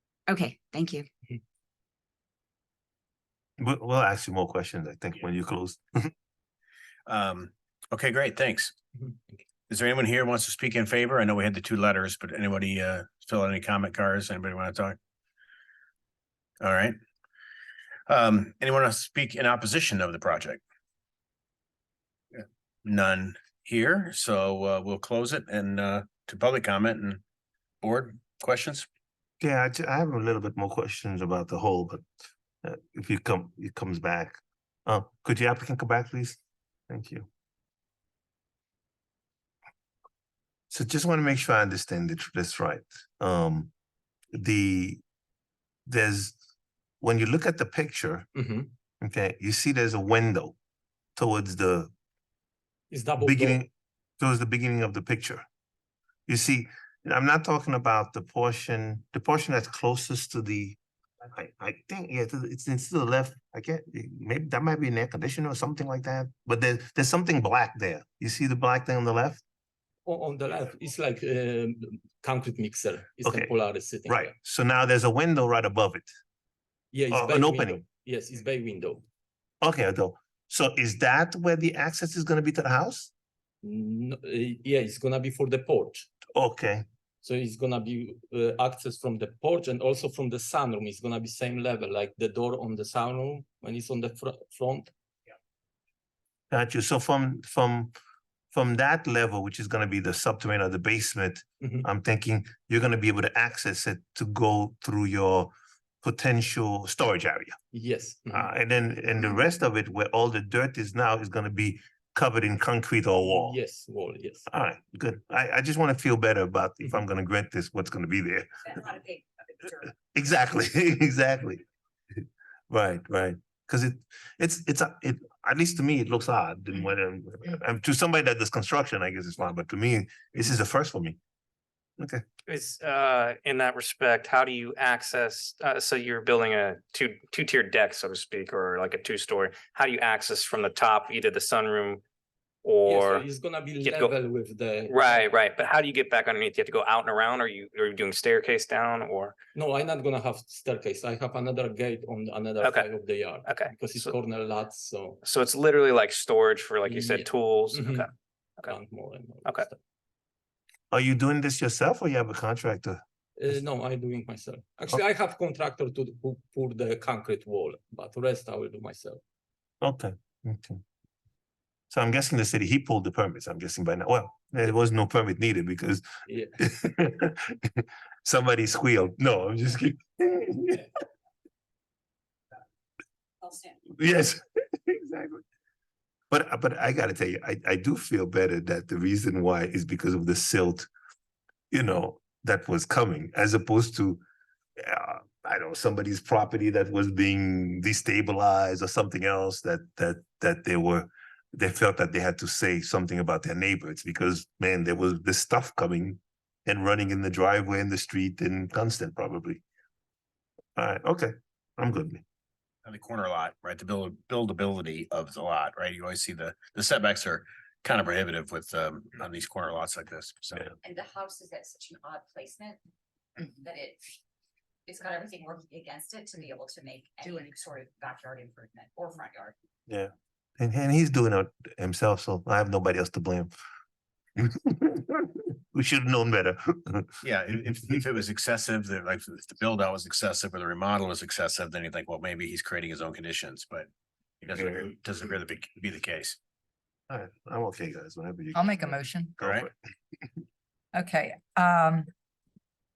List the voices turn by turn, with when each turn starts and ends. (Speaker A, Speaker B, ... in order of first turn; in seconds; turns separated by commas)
Speaker A: 0.3-1.1, Speaker B: 3.6-6.1, Speaker C: 7.1-8.8, Speaker C: 9.7-15.0, Speaker C: 16.6-17.0, Speaker C: 18.1-20.6, Speaker C: 22.3-27.2, Speaker C: 27.8-28.9, Speaker B: 29.4-32.0, Speaker B: 32.6-37.3, Speaker B: 40.7-43.7, Speaker B: 44.3-45.0, Speaker B: 45.9-46.4, Speaker B: 47.0-48.2, Speaker D: 48.3-48.7, Speaker B: 49.0-50.5, Speaker B: 51.2-51.9, Speaker D: 52.9-53.6, Speaker B: 53.2-55.5, Speaker B: 56.3-69.4, Speaker D: 70.0-74.3, Speaker B: 73.2-73.5, Speaker B: 74.1-76.1, Speaker D: 76.9-79.0, Speaker B: 77.1-77.8, Speaker B: 79.6-83.1, Speaker D: 83.6-86.0, Speaker B: 86.3-86.8, Speaker D: 87.2-94.9, Speaker B: 96.5-97.9, Speaker B: 98.5-107.6, Speaker D: 107.7-108.5, Speaker B: 108.3-113.6, Speaker D: 113.2-114.5, Speaker B: 114.5-118.9, Speaker A: 119.0-119.2, Speaker B: 120.1-121.6, Speaker B: 122.7-131.2, Speaker E: 132.5-142.0, Speaker E: 142.6-143.2, Speaker D: 142.9-145.3, Speaker E: 143.8-144.2, Speaker E: 144.9-149.4, Speaker D: 149.5-155.2, Speaker E: 152.6-152.9, Speaker E: 153.4-154.2, Speaker E: 155.2-158.7, Speaker D: 156.8-158.1, Speaker D: 158.7-159.8, Speaker B: 160.9-163.0, Speaker D: 163.4-169.2, Speaker B: 169.8-170.8, Speaker B: 171.9-176.0, Speaker D: 176.3-176.6, Speaker B: 176.6-180.9, Speaker B: 183.9-185.4, Speaker B: 186.3-190.9, Speaker B: 191.7-194.2, Speaker B: 194.8-209.6, Speaker B: 210.8-212.2, Speaker C: 212.8-220.7, Speaker A: 220.8-222.8, Speaker A: 223.4-224.2, Speaker A: 224.9-229.5, Speaker B: 229.9-233.5, Speaker B: 234.4-237.1, Speaker C: 237.2-243.9, Speaker C: 244.4-246.4, Speaker B: 247.1-249.7, Speaker F: 248.5-249.3, Speaker C: 249.4-249.7, Speaker F: 250.9-252.1